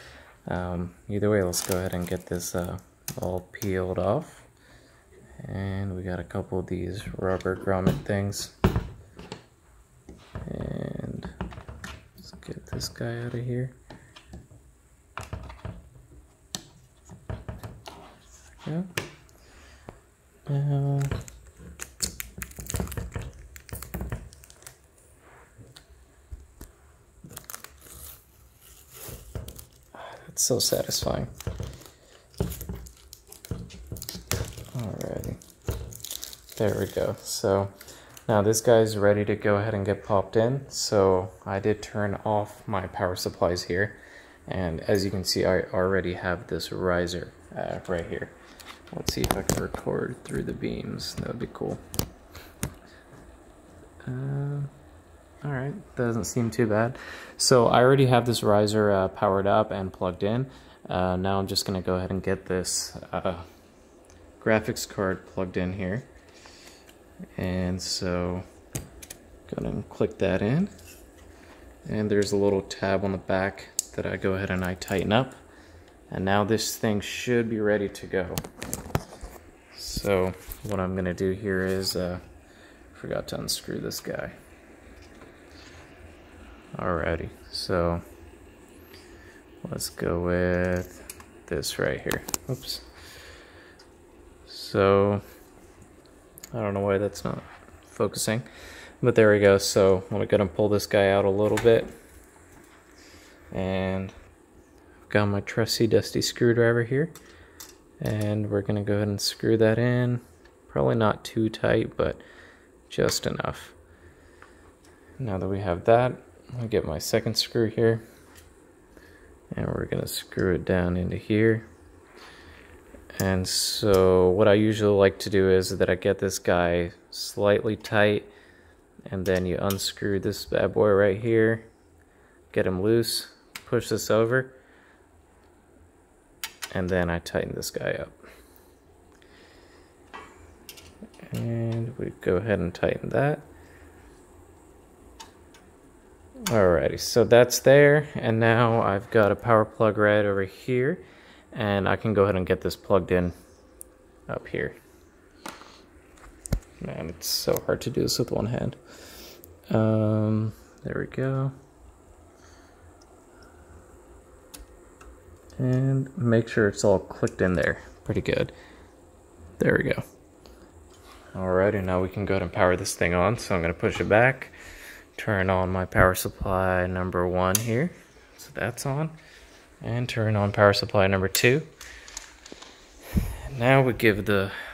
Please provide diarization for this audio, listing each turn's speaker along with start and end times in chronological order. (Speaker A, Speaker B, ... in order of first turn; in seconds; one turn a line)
Speaker A: 0.5-4.5
Speaker A: 5.4-8.6
Speaker A: 10.4-11.3
Speaker A: 12.2-13.8
Speaker A: 18.6-18.9
Speaker A: 20.5-21.2
Speaker A: 29.9-31.3
Speaker A: 34.7-35.4
Speaker A: 36.5-37.7
Speaker A: 38.3-48.4
Speaker A: 48.9-51.8
Speaker A: 54.0-54.7
Speaker A: 55.4-63.5
Speaker A: 64.4-66.1
Speaker A: 67.4-68.5
Speaker A: 69.5-70.7
Speaker A: 71.9-75.4
Speaker A: 76.1-78.4
Speaker A: 79.7-82.2
Speaker A: 82.9-84.3
Speaker A: 86.8-88.0
Speaker A: 89.6-92.8
Speaker A: 94.5-95.2
Speaker A: 96.5-98.5
Speaker A: 99.0-101.9
Speaker A: 103.5-104.2
Speaker A: 105.1-107.2
Speaker A: 108.0-112.2
Speaker A: 112.9-113.8
Speaker A: 115.2-118.0
Speaker A: 119.5-121.7
Speaker A: 123.2-128.3
Speaker A: 129.1-131.7
Speaker A: 132.5-134.5
Speaker A: 136.7-138.2
Speaker A: 141.2-143.5
Speaker A: 146.5-153.3
Speaker A: 154.3-154.8
Speaker A: 156.8-158.8
Speaker A: 159.7-161.5
Speaker A: 165.6-168.5
Speaker A: 169.6-170.0
Speaker A: 171.3-174.6
Speaker A: 175.2-179.2
Speaker A: 179.8-181.7
Speaker A: 183.5-184.6